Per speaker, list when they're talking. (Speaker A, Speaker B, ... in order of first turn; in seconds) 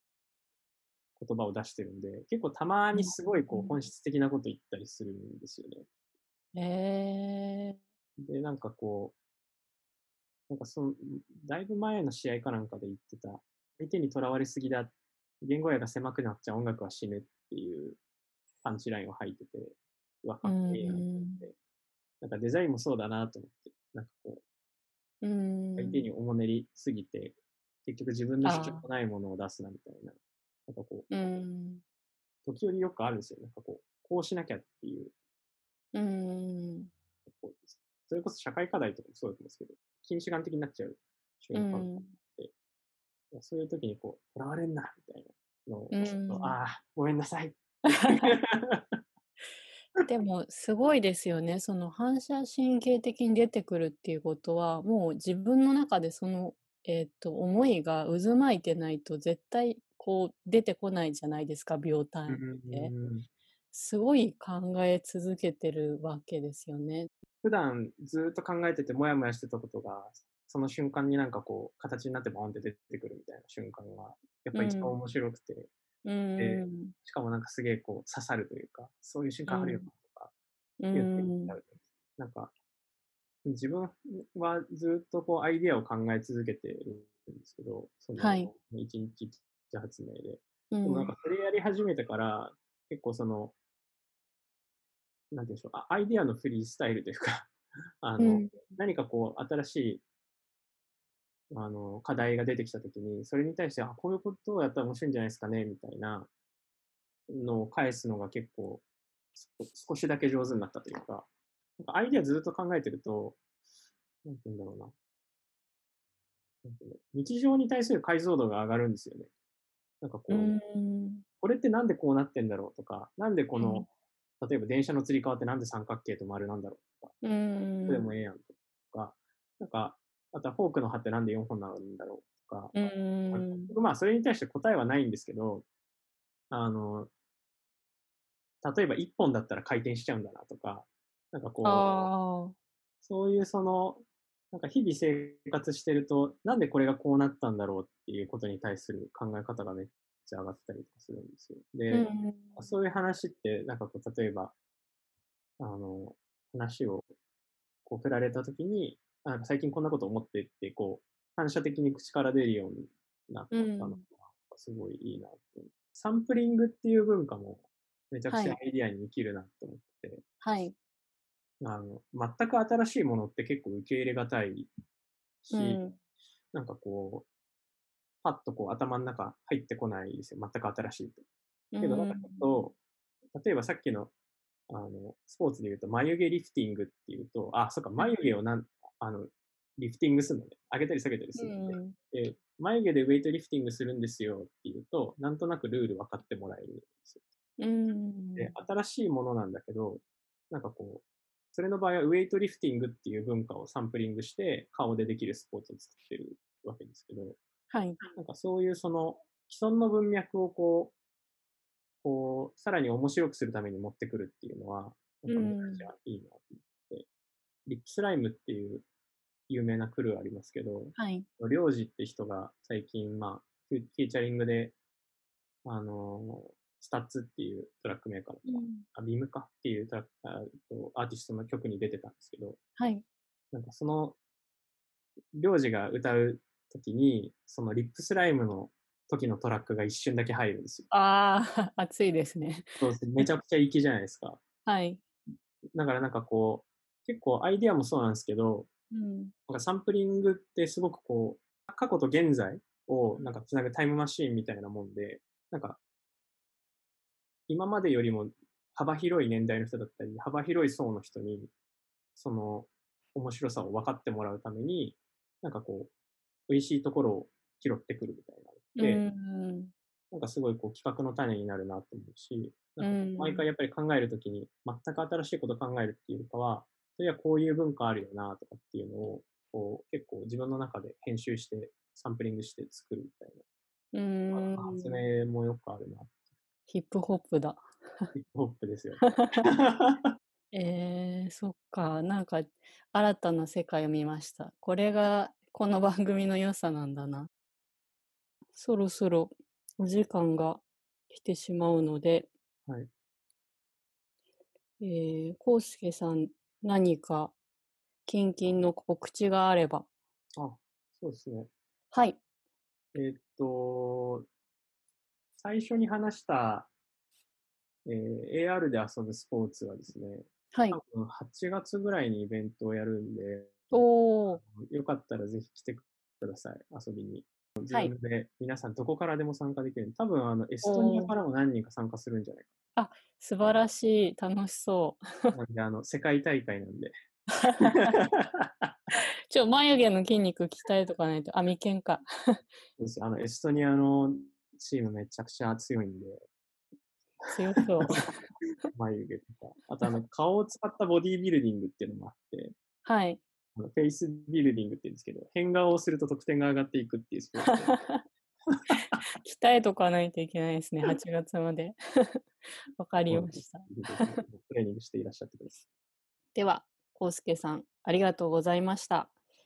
Speaker A: 1.1-5.8, 8.2-9.1, 10.5-18.0, 18.6-21.5, 22.2-24.4, 25.8-31.1, 32.4-35.1, 37.3-42.5, 43.3-49.0, 62.3-63.2, 67.4-75.7, 76.4-80.3, 80.9-82.5, 83.4-93.5, 95.3-100.0, 101.5-106.3, 107.3-108.8, 109.3-111.3, 111.8-113.4, 114.2-114.9, 116.6-119.3, 120.0-120.5, 121.4-123.9, 124.4-127.1, 127.9-132.7, 133.3-135.7, 136.5-137.1, 138.6-142.1, 143.0-154.5, 155.6-157.1, 157.8-170.2, 171.6-174.7, 175.4-175.8, 176.5-177.3, 178.2-181.2, 181.8-182.8, 183.3-184.1, 184.7-197.2, 198.3-207.4, 208.1-210.9, 212.0-217.1, 217.7-218.9, 219.5-224.8, 225.6-232.6, 233.5-234.2, 235.3-240.9, 242.8-244.4, 245.8-248.7, 249.5-255.8, 257.5-261.5, 262.1-265.9, 266.5-269.0, 270.1-283.4, 284.3-286.1, 288.1-289.0, 289.6-290.1, 310.4-311.5, 312.9-314.3, 315.4-316.7, 317.9-332.5, 335.3-336.9, 338.0-338.7, 342.8-346.2, 347.6-347.9, 348.7-352.6, 353.6-357.8, 363.1-365.7
Speaker B: 2.9-3.8, 6.5-7.8, 20.4-21.4, 25.2-26.1, 28.4-28.8, 31.1-31.8, 35.9-36.9, 41.5-42.1, 45.9-46.5, 47.9-48.4, 50.0-62.9, 63.7-67.1, 74.5-75.0, 76.0-76.9, 79.5-79.9, 80.8-81.6, 88.2-88.5, 90.7-91.1, 98.2-98.7, 120.3-121.2, 123.6-123.9, 127.2-128.1, 132.7-133.7, 141.6-142.6, 151.9-152.7, 163.5-164.0, 168.3-168.6, 170.4-170.7, 175.5-176.0, 181.7-182.6, 188.0-188.3, 191.3-191.9, 197.6-198.5, 207.7-208.1, 215.3-215.9, 220.9-221.3, 228.4-228.8, 232.8-233.0, 240.9-243.2, 244.7-245.0, 248.9-249.3, 268.8-269.7, 272.8-273.4, 283.9-285.0, 286.7-288.1, 289.0-289.4, 290.5-297.3, 298.5-302.3, 304.8-307.3, 308.1-309.9, 311.9-312.2, 320.5-320.8, 323.7-324.4, 330.6-331.1, 332.8-335.4, 337.4-338.0, 339.3-342.0, 347.3-348.1, 352.8-353.2, 357.4-358.0, 359.2-362.2, 362.8-364.2, 366.3-369.1